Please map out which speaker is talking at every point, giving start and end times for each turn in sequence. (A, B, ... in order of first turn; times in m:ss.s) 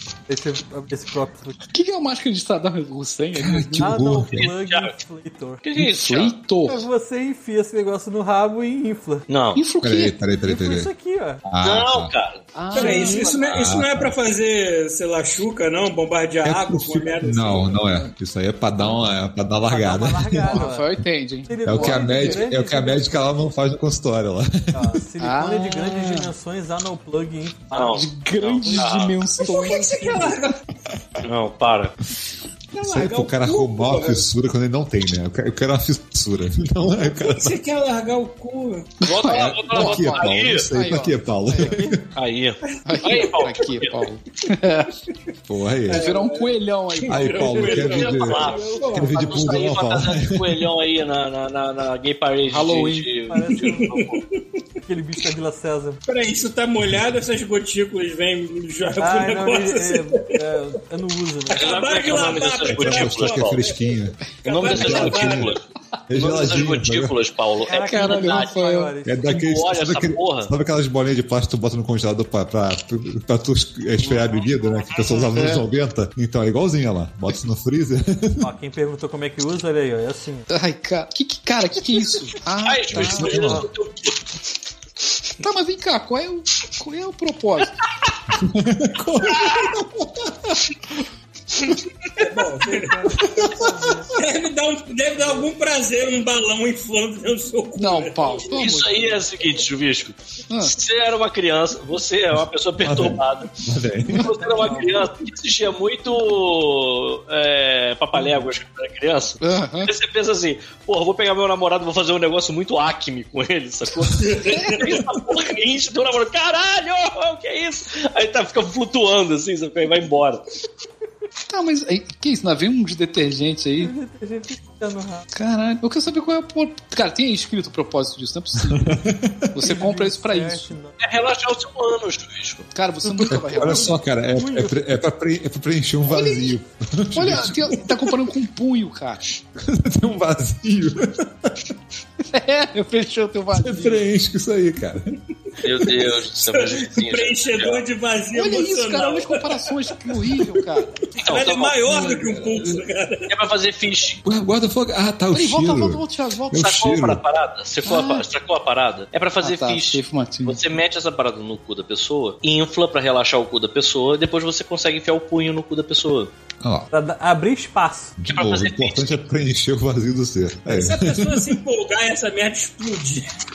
0:00.3-0:01.6 A
0:01.7-0:04.0 B
0:03.4-0:04.5 C
0:03.8-0:05.6 A
0:04.4-0:04.9 D
0:05.6-0:06.3 D
0:05.8-0:06.8 B
0:06.7-0:09.2 A
0:09.3-0:09.6 D
0:09.6-0:10.2 B
0:09.8-0:10.9 C
0:10.4-0:11.4 A
0:11.4-0:12.1 C
0:11.6-0:13.5 D
0:12.6-0:13.4 B
0:12.7-0:17.9 E
0:12.8-0:13.2 A
0:13.5-0:14.1 C
0:16.4-0:20.7 C
0:19.7-0:20.9 A
0:20.5-0:22.6 B
0:21.5-0:23.5 A
0:21.6-0:25.0 C
0:24.7-0:28.1 A
0:25.2-0:26.3 B
0:27.7-0:29.2 D
0:27.9-0:30.4 B
0:28.6-0:28.9 A
0:29.4-0:30.6 E
0:31.2-0:31.9 D
0:32.7-0:34.3 E
0:32.8-0:37.6 C
0:37.0-0:38.9 E
0:39.0-0:41.8 B
0:39.0-0:40.7 D
0:39.3-0:42.0 C
0:42.1-0:44.0 D
0:42.8-0:45.0 B
0:45.5-0:46.1 C
0:45.9-0:47.6 B
0:45.9-0:49.6 E
0:47.1-0:50.7 C
0:47.5-0:49.2 A
0:47.9-0:54.2 D
0:52.5-0:53.1 B
0:53.3-0:53.9 A
0:53.6-0:54.2 E
0:54.9-0:56.0 A
0:56.1-1:00.2 E
0:59.0-1:02.4 A
1:01.5-1:03.9 E
1:01.5-1:03.6 D
1:02.6-1:05.6 C
1:04.4-1:05.6 E
1:04.4-1:05.6 D
1:06.1-1:07.2 C
1:06.1-1:08.5 D
1:07.7-1:09.3 A
1:07.7-1:08.9 B
1:09.0-1:18.5 C
1:09.2-1:10.5 D
1:14.0-1:14.8 A
1:14.9-1:15.2 D
1:15.4-1:15.7 B
1:18.4-1:20.5 A
1:20.5-1:23.5 B
1:22.6-1:24.2 D
1:22.9-1:23.6 C
1:23.4-1:23.6 A
1:25.4-1:27.8 B
1:28.3-1:30.3 C
1:32.2-1:33.2 E
1:32.6-1:34.1 A
1:34.2-1:38.6 E
1:35.2-1:35.5 A
1:37.8-1:39.1 B
1:38.5-1:43.5 D
1:40.5-1:40.8 B
1:42.8-1:44.3 C
1:44.1-2:00.4 D
1:44.3-1:45.1 A
1:49.4-1:49.9 B
1:54.2-1:55.0 E
1:54.4-1:54.9 B
2:01.5-2:03.9 B
2:03.8-2:05.2 A
2:05.3-2:09.0 B
2:08.7-2:09.5 C
2:09.5-2:10.7 B
2:09.6-2:11.0 A
2:11.0-2:12.7 D
2:12.7-2:14.0 B
2:13.2-2:17.9 C
2:14.4-2:14.8 A
2:16.1-2:16.6 B
2:17.1-2:19.2 B
2:19.6-2:21.7 C
2:22.3-2:24.0 B
2:23.5-2:25.1 C
2:25.6-2:27.8 D
2:26.5-2:30.4 E
2:28.3-2:31.0 B
2:31.1-2:33.3 E
2:31.2-2:31.9 D
2:31.9-2:32.8 C
2:33.3-2:34.2 D
2:34.2-2:37.2 C
2:35.3-2:36.7 B
2:36.5-2:46.3 D
2:37.8-2:38.3 B
2:39.4-2:40.6 B
2:46.6-2:46.9 C
2:46.9-2:48.2 A
2:48.2-2:51.6 C
2:48.3-2:49.2 D
2:50.7-2:53.3 E